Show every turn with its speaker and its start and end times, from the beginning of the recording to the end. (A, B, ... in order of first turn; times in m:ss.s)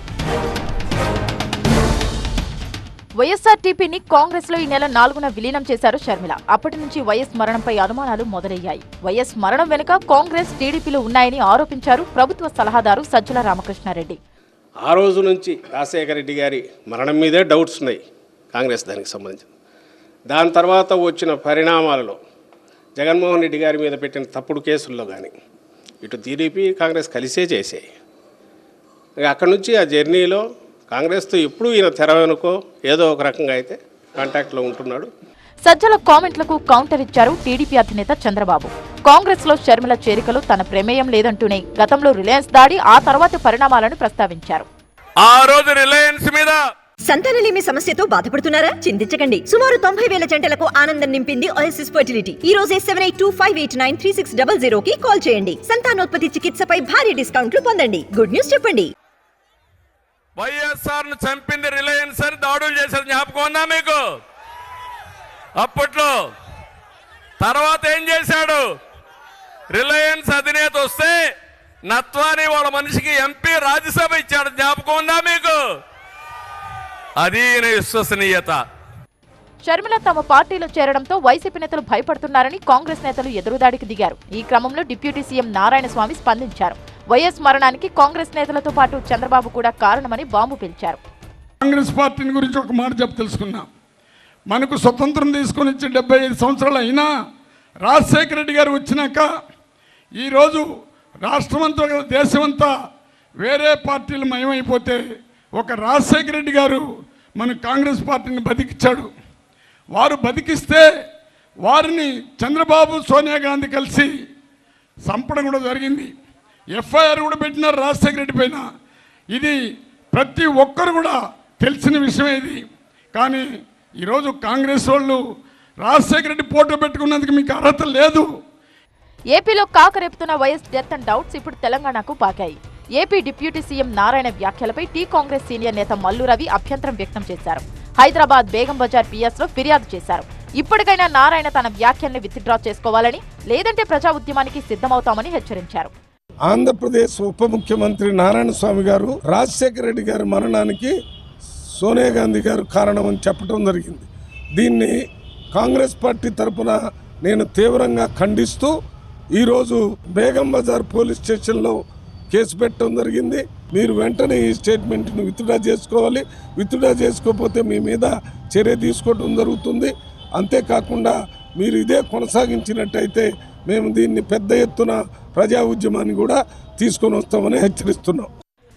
0:03.2-0:14.2 A
0:14.8-0:18.0 B
0:18.5-0:19.5 B
0:20.3-0:22.2 B
0:23.0-0:25.3 B
0:26.0-0:27.8 B
0:29.2-0:35.1 B
0:35.6-0:44.7 A
0:45.2-0:46.6 C
0:47.0-0:58.9 D
1:00.4-1:04.0 C
1:05.6-1:06.1 C
1:07.4-1:08.6 C
1:09.7-1:11.2 C
1:11.9-1:15.6 C
1:17.2-1:18.6 C
1:19.6-1:31.0 A
1:31.6-1:33.7 E
1:34.5-1:37.1 E
1:37.8-1:39.3 E
1:40.2-1:40.6 E
1:41.2-1:42.7 E
1:43.4-1:45.0 E
1:45.6-1:46.8 E
1:47.4-1:49.1 E
1:49.9-1:50.8 E
1:51.6-1:54.1 E
1:55.0-1:56.1 E
1:56.7-1:58.6 E
2:00.1-2:02.6 E
2:03.1-2:03.4 E
2:04.0-2:05.2 E
2:05.8-2:08.2 E
2:09.3-2:25.9 A
2:26.5-2:30.9 F
2:31.8-2:34.9 F
2:35.5-2:38.7 F
2:39.3-2:41.8 F
2:42.3-2:58.3 F